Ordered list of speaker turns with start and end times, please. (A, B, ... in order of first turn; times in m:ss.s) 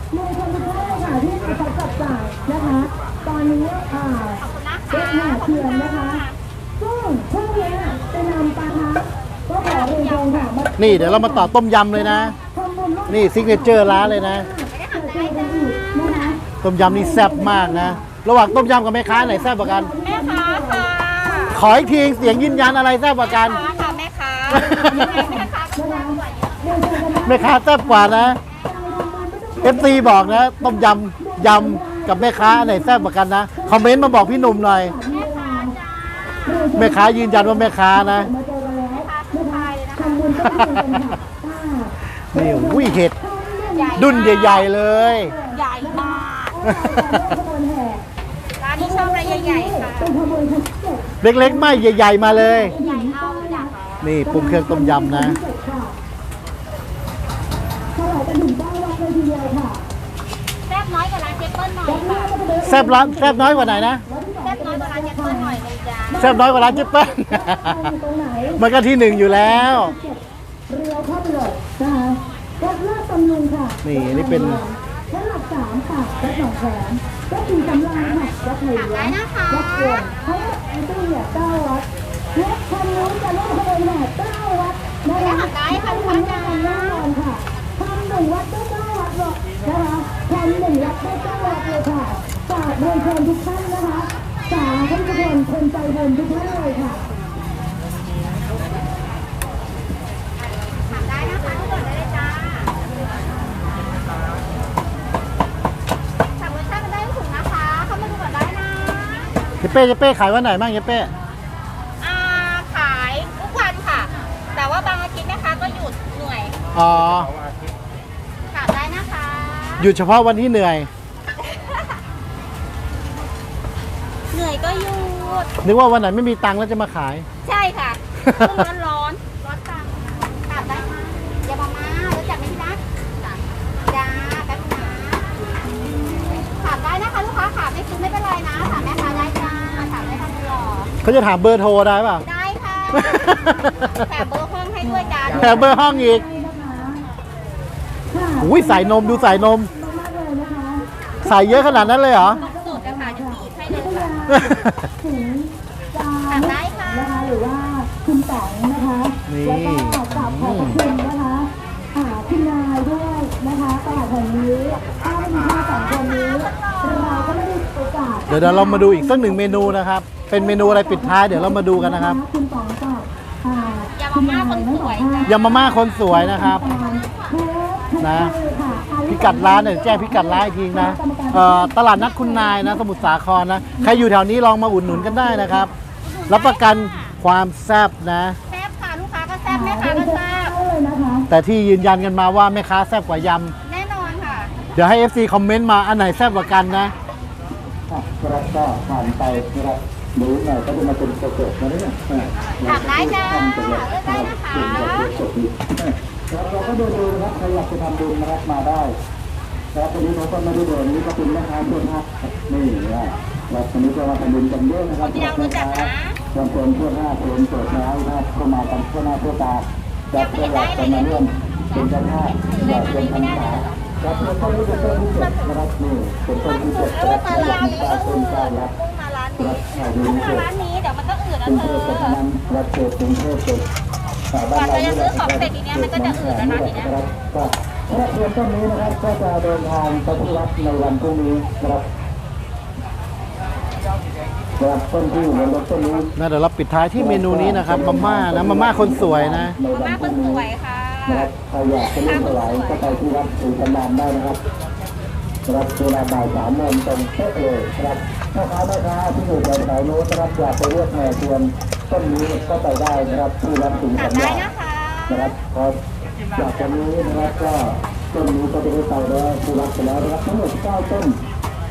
0:00.1-0:06.2 A
0:04.4-0:06.4 B
0:06.8-0:22.8 A
0:09.6-0:10.5 B
0:10.8-0:12.4 C
0:13.1-0:14.5 C
0:14.7-0:16.3 B
0:16.6-0:19.9 C
0:20.0-0:21.6 B
0:21.5-0:23.6 C
0:23.2-0:26.8 B
0:23.4-0:35.8 A
0:24.5-0:25.1 C
0:27.2-0:28.4 C
0:28.7-0:29.3 B
0:29.6-0:35.0 C
0:35.1-0:36.8 B
0:36.4-0:48.0 A
0:36.8-0:38.3 C
0:38.9-0:40.4 B
0:40.4-0:41.1 C
0:42.3-0:43.1 C
0:43.6-0:44.7 B
0:44.0-0:45.3 C
0:45.5-0:46.6 B
0:46.7-0:47.2 C
0:48.6-0:50.1 B
0:48.8-0:53.7 A
0:51.2-0:52.8 C
0:52.8-0:53.9 B
0:54.0-0:55.4 C
0:54.2-0:55.9 A
0:58.0-0:59.8 A
1:00.7-1:02.3 B
1:01.8-1:05.6 A
1:02.6-1:04.0 C
1:04.4-1:06.3 B
1:06.1-1:37.0 A
1:06.2-1:07.9 C
1:08.6-1:09.9 C
1:13.8-1:14.6 C
1:18.7-1:20.2 B
1:25.2-1:27.1 B
1:30.8-1:31.8 B
1:34.5-1:35.4 B
1:36.3-1:36.9 B
1:40.7-1:42.7 B
1:46.4-1:49.3 B
1:49.6-1:51.1 C
1:52.0-1:56.6 B
1:56.7-1:57.3 C
1:58.5-1:59.9 B
1:59.8-2:00.9 C
2:01.4-2:02.0 B
2:04.3-2:05.5 B
2:05.6-2:07.3 C
2:07.4-2:12.8 B
2:08.2-2:08.7 C
2:13.9-2:15.2 B
2:16.2-2:20.9 B
2:21.0-2:22.2 C
2:22.2-2:25.6 B
2:22.9-2:24.2 C
2:24.8-2:27.0 A
2:25.3-2:26.2 C
2:28.1-2:49.8 A
2:28.4-2:29.7 C
2:31.2-2:32.4 C
2:32.3-2:34.1 B
2:34.3-2:34.8 C
2:36.3-2:37.1 B
2:39.3-2:40.8 C
2:45.7-2:47.4 B
2:48.3-2:52.2 C
2:50.3-3:03.1 A
2:54.0-2:55.7 B
2:55.3-2:56.6 C
2:56.9-2:57.3 B
2:58.0-2:58.3 C
2:59.1-3:05.7 C
3:03.8-3:04.1 A
3:04.9-3:05.7 A
3:06.0-3:07.2 B
3:06.3-3:08.4 C
3:08.5-3:10.5 B
3:09.5-3:11.3 A
3:11.3-3:13.5 C
3:13.6-3:14.5 B
3:14.8-3:16.9 C
3:17.9-3:28.9 D
3:22.6-3:25.3 B
3:29.7-3:48.7 D
3:35.0-3:36.2 B
3:40.1-3:45.6 B
3:46.6-3:52.2 B
3:49.4-3:50.5 D
3:51.4-3:53.7 D
3:54.3-4:01.9 D
3:54.4-3:57.0 B
4:04.6-4:06.1 D
4:06.2-4:09.6 C
4:07.0-4:10.5 D
4:09.7-4:13.0 B
4:11.1-4:14.4 D
4:15.5-4:24.5 D
4:23.9-4:25.2 B
4:25.1-4:25.8 D
4:26.3-4:31.2 D